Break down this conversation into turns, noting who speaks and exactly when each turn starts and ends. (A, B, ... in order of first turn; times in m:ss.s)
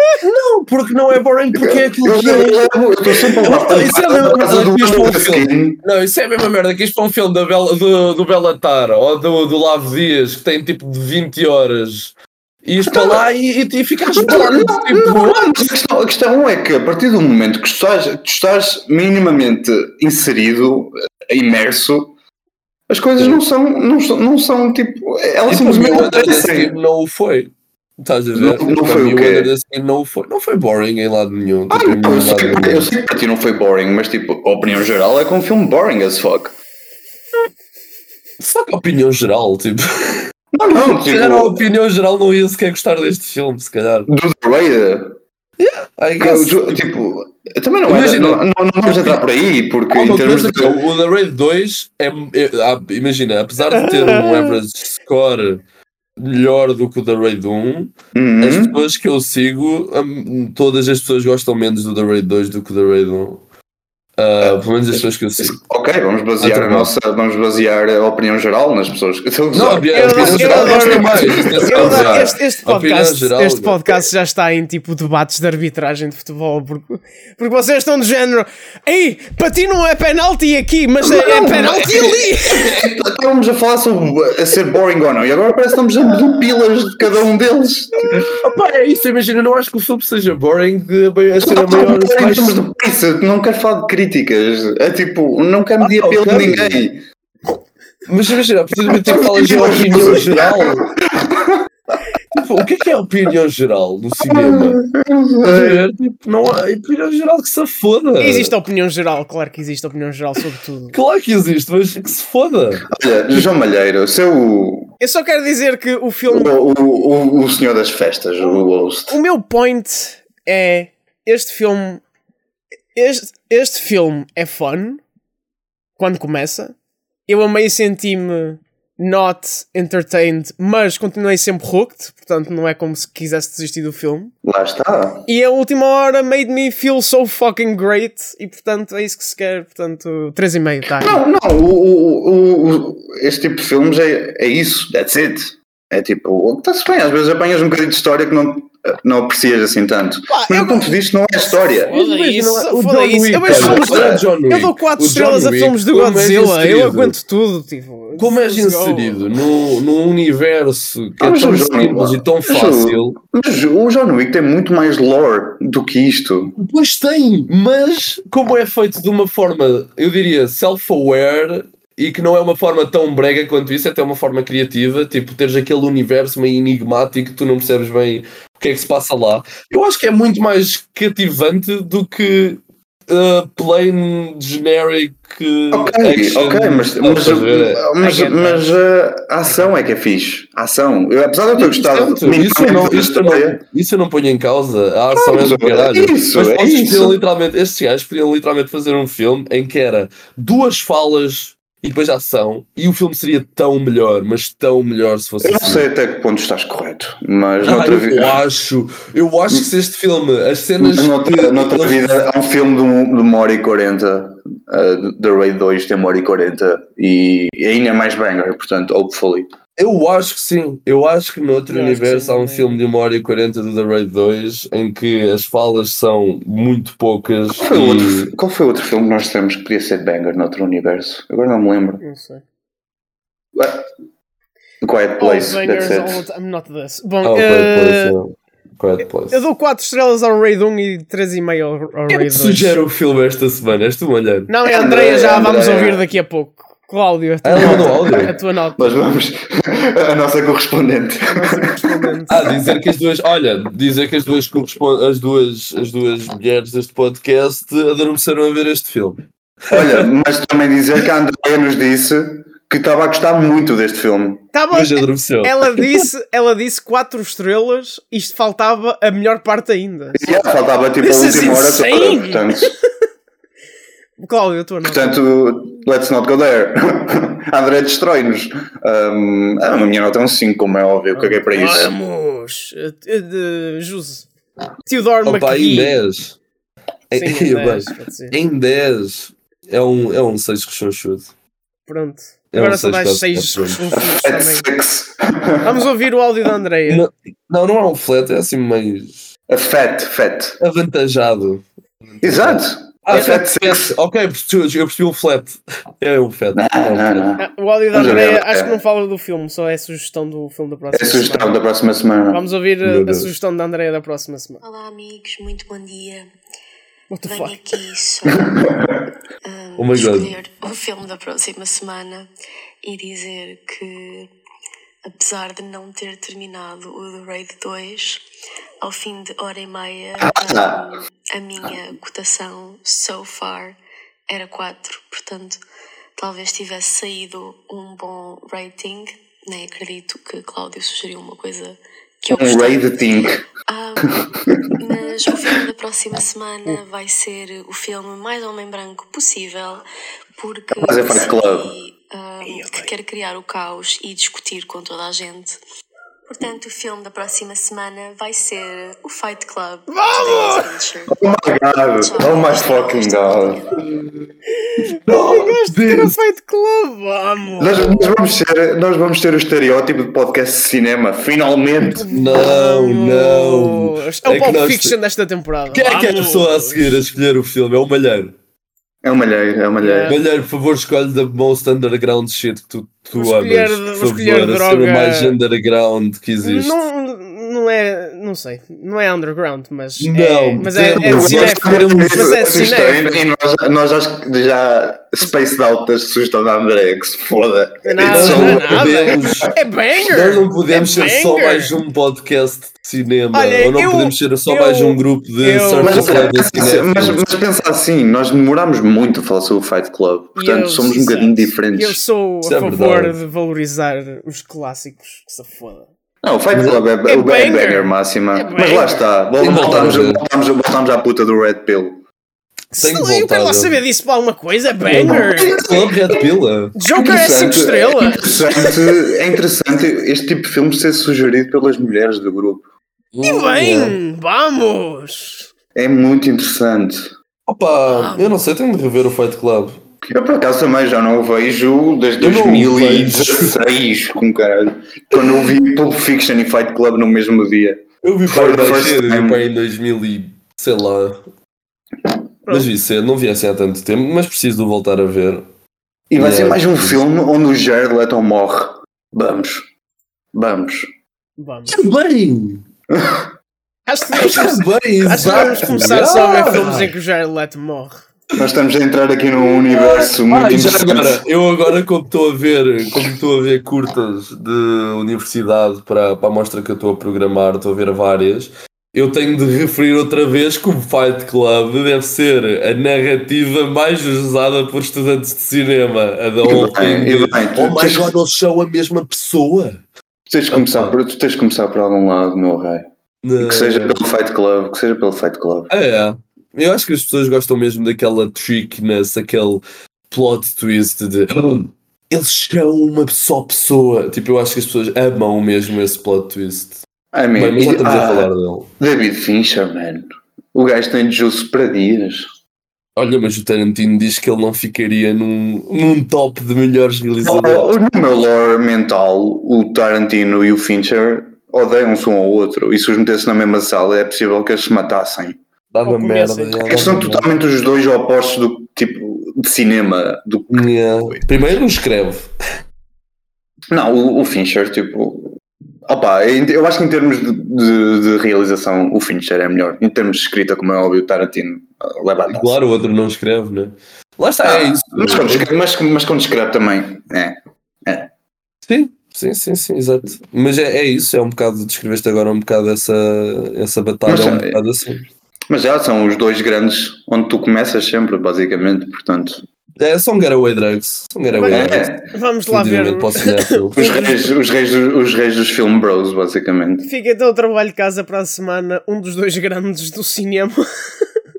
0:00.2-0:15.7 A
0:01.6-0:05.8 B
0:12.9-0:13.2 B
0:14.1-0:22.1 B
0:22.9-0:26.7 B
0:25.5-0:32.9 A
0:28.4-0:29.5 B
0:31.7-0:36.5 B
0:38.4-0:44.1 A
0:40.5-0:41.6 B
0:44.1-0:45.2 B
0:45.6-0:46.9 A
0:46.2-0:50.8 B
0:47.9-0:49.2 A
0:49.9-0:55.6 A
0:53.7-0:54.6 C
0:56.2-1:03.4 A
0:58.1-0:58.8 B
1:04.2-1:05.6 A
1:05.4-1:12.3 B
1:06.4-1:06.9 A
1:09.5-1:13.8 A
1:09.9-1:22.8 C
1:21.0-1:28.3 B
1:28.3-1:32.6 A
1:31.4-1:37.0 B
1:35.8-1:36.8 A
1:38.1-1:40.9 A
1:38.9-1:41.7 B
1:42.4-1:44.8 A
1:44.2-1:45.8 B
1:45.4-1:48.5 A
1:48.2-1:51.0 C
1:50.9-1:52.9 A
1:52.9-1:54.9 B
1:55.0-1:56.6 C
1:56.3-1:59.2 B
1:59.1-2:02.0 C
2:03.0-2:05.0 C
2:06.0-2:06.7 C
2:07.3-2:14.3 C
2:14.4-2:15.3 B
2:15.3-2:21.2 C
2:21.0-2:31.9 B
2:30.3-2:39.3 C
2:31.9-2:37.1 A
2:33.4-2:34.2 B
2:38.2-2:43.1 A
2:41.2-2:46.6 B
2:46.6-3:07.9 A
3:05.7-3:13.6 B
3:08.0-3:08.8 C
3:11.6-3:25.8 A
3:15.1-3:17.2 B
3:25.4-3:28.4 B
3:27.6-3:32.2 A
3:30.8-3:39.5 B
3:39.8-3:48.3 A
3:41.7-3:42.7 C
3:47.6-3:52.0 B
3:52.0-3:52.4 C
3:53.6-3:53.9 B
3:54.8-3:56.2 B
3:55.2-3:58.2 C
3:57.2-3:59.4 A
3:59.3-4:02.8 C
4:02.1-4:04.5 A
4:04.5-4:09.0 C
4:04.7-4:06.0 B
4:07.4-4:08.3 A
4:07.6-4:12.5 B
4:11.3-4:12.4 C
4:12.3-4:20.1 A
4:19.7-4:24.5 B
4:24.5-4:30.4 C
4:24.7-4:26.0 A
4:30.1-4:32.7 B
4:31.0-4:32.7 C
4:34.2-4:35.2 C
4:34.8-4:41.9 B
4:41.1-4:44.3 C
4:44.8-4:46.0 C
4:45.2-4:46.4 A
4:47.1-4:51.3 A
4:47.1-4:48.4 C
4:51.9-4:54.7 C
4:52.5-4:53.8 A
4:53.9-4:55.7 B
4:55.6-4:57.1 C
4:56.9-4:59.3 A
4:59.5-5:00.6 B
5:00.6-5:07.3 A
5:02.2-5:04.0 B
5:06.5-5:07.4 B
5:07.4-5:11.6 C
5:07.9-5:08.7 B
5:10.9-5:12.4 B
5:12.3-5:14.6 C
5:12.8-5:13.3 A
5:14.6-5:16.3 D
5:17.1-5:17.8 C
5:17.2-5:18.7 D
5:18.6-5:19.0 B
5:19.4-5:22.3 D
5:19.8-5:20.3 A
5:22.8-5:24.3 D
5:25.1-5:28.2 D
5:28.8-5:33.8 D
5:30.2-5:30.8 B
5:34.3-5:35.6 D
5:36.2-5:44.2 D
5:42.3-5:43.4 B
5:44.2-5:44.7 B
5:44.8-5:49.8 D
5:50.4-5:55.6 D
5:50.8-5:51.7 B
5:52.4-5:52.9 C
5:56.3-6:01.3 D
5:59.9-6:00.7 C
6:01.1-6:03.8 B
6:02.0-6:03.9 D
6:04.6-6:08.1 C
6:05.1-6:06.2 A
6:07.6-6:12.1 B
6:12.0-6:17.0 C
6:12.1-6:15.0 A
6:15.7-6:18.4 A
6:19.0-6:20.1 B
6:19.8-6:20.1 C
6:20.1-6:26.8 A
6:23.1-6:25.4 C
6:26.4-6:33.2 C
6:30.0-6:32.0 A
6:31.0-6:39.5 B
6:37.8-6:41.7 C
6:38.1-6:39.5 A
6:40.1-6:47.2 A
6:43.3-6:46.3 C
6:45.8-6:52.0 B
6:50.4-6:55.9 C
6:52.4-6:53.1 A
6:56.2-7:02.0 B
6:56.5-6:56.8 A
6:57.0-6:59.0 C
6:59.4-7:00.2 A
7:02.7-7:05.6 C
7:02.8-7:03.8 A
7:04.9-7:06.8 A
7:04.9-7:06.2 B
7:06.8-7:09.0 C
7:07.0-7:12.7 B
7:13.1-7:14.0 A
7:13.2-7:15.4 C
7:15.7-7:17.1 B
7:17.5-7:19.8 A
7:20.1-7:29.4 B
7:22.2-7:23.5 A
7:28.0-7:31.2 A
7:32.5-7:35.4 A
7:36.1-7:39.7 B
7:36.2-7:37.0 A
7:40.3-7:40.9 B
7:41.4-7:41.8 C
7:41.7-7:42.6 A
7:42.9-7:43.3 B
7:43.9-7:48.1 C
7:44.1-7:46.9 A
7:48.4-7:51.2 B
7:49.7-8:09.8 A
8:06.4-8:08.2 B
8:10.3-8:12.9 B
8:10.5-8:11.0 A
8:13.2-8:14.0 A
8:13.4-8:15.7 B
8:15.7-8:26.8 A
8:27.1-8:32.3 B
8:27.4-8:28.7 A
8:33.0-8:37.7 A
8:37.2-8:45.4 B
8:45.7-8:47.3 A
8:45.9-8:46.8 C
8:46.6-8:51.4 B
8:50.5-8:52.3 A
8:53.7-9:02.6 B
9:02.3-9:05.5 A
9:04.4-9:08.1 B
9:08.7-9:15.1 A
9:14.1-9:14.6 B
9:15.5-9:19.4 B
9:19.8-9:21.9 A
9:21.3-9:24.1 C
9:21.5-9:22.0 B
9:22.5-9:23.8 A
9:23.8-9:26.9 B
9:26.8-9:30.6 C